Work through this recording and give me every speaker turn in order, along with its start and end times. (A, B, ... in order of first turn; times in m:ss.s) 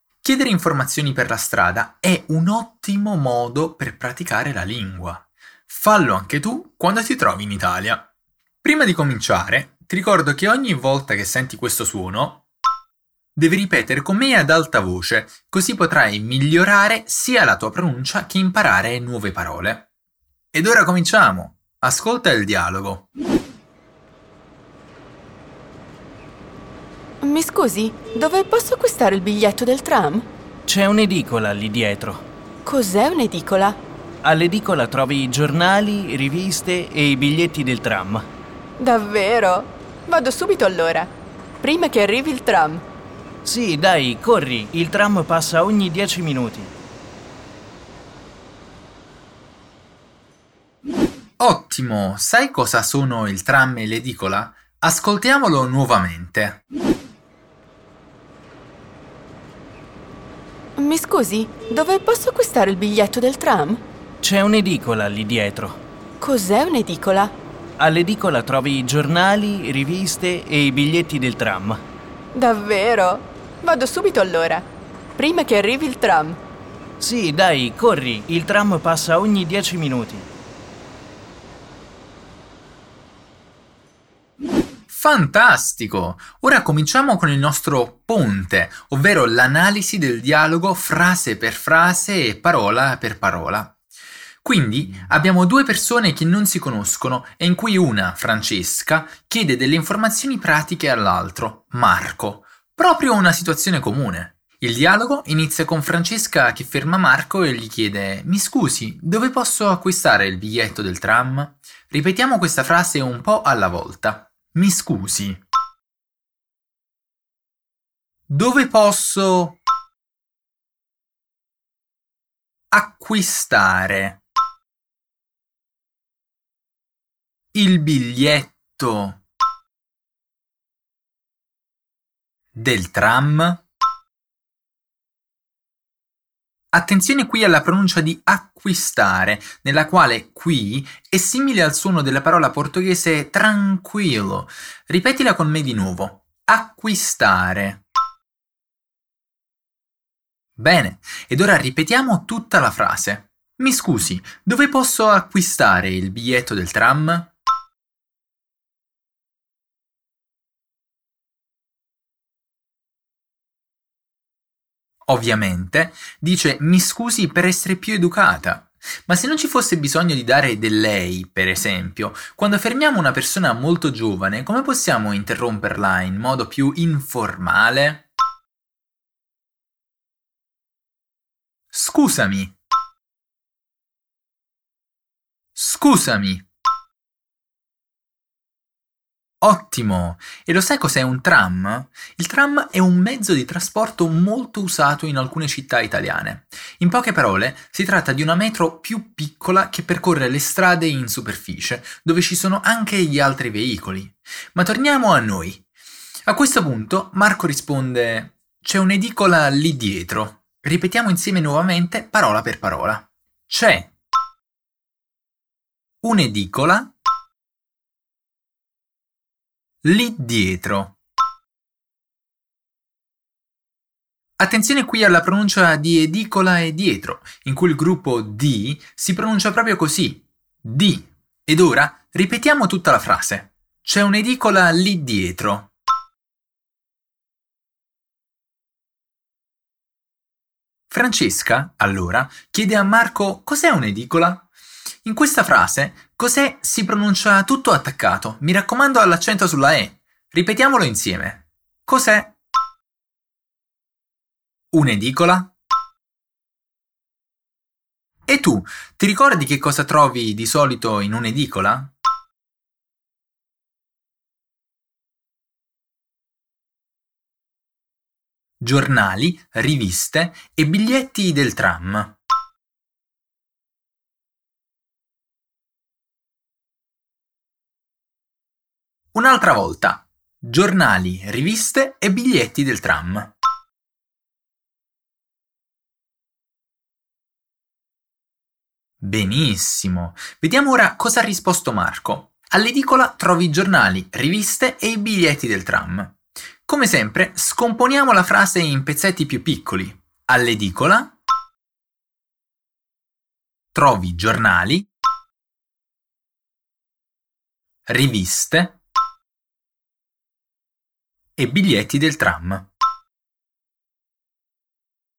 0:00.2-0:08.1 A
0:08.6-0:12.5 A
0:13.4-0:19.9 A
0:20.5-0:23.1 A
0:27.2-0:30.3 B
0:30.7-0:32.2 C
0:32.6-0:33.8 B
0:34.2-0:38.2 C
0:38.8-0:42.8 B
0:43.4-0:46.7 C
0:51.4-0:56.6 A
1:00.8-1:03.8 B
1:04.2-1:05.8 C
1:06.2-1:07.4 B
1:07.8-1:11.8 C
1:12.3-1:16.4 B
1:17.0-1:20.3 C
1:24.9-1:33.8 A
1:34.4-1:55.4 A
1:58.3-1:59.6 A
2:02.7-2:04.2 A
2:07.5-2:09.2 A
2:12.6-2:13.6 A
2:16.7-2:27.8 A
2:30.6-2:37.3 A
2:45.1-2:58.1 A
3:01.7-3:02.6 A
3:05.6-3:06.4 A
3:09.4-3:25.6 A
3:26.3-3:33.9 A
3:36.0-3:36.9 A
3:39.8-3:41.0 A
3:44.4-3:55.7 A
4:00.9-4:04.5 A
4:05.0-4:12.4 A
4:14.7-4:15.5 A
4:18.3-4:21.9 A
4:28.6-4:32.2 A
4:39.1-4:43.3 A
4:49.0-5:01.2 A
5:03.7-5:04.9 A
5:07.9-5:08.8 A
5:11.4-5:12.7 A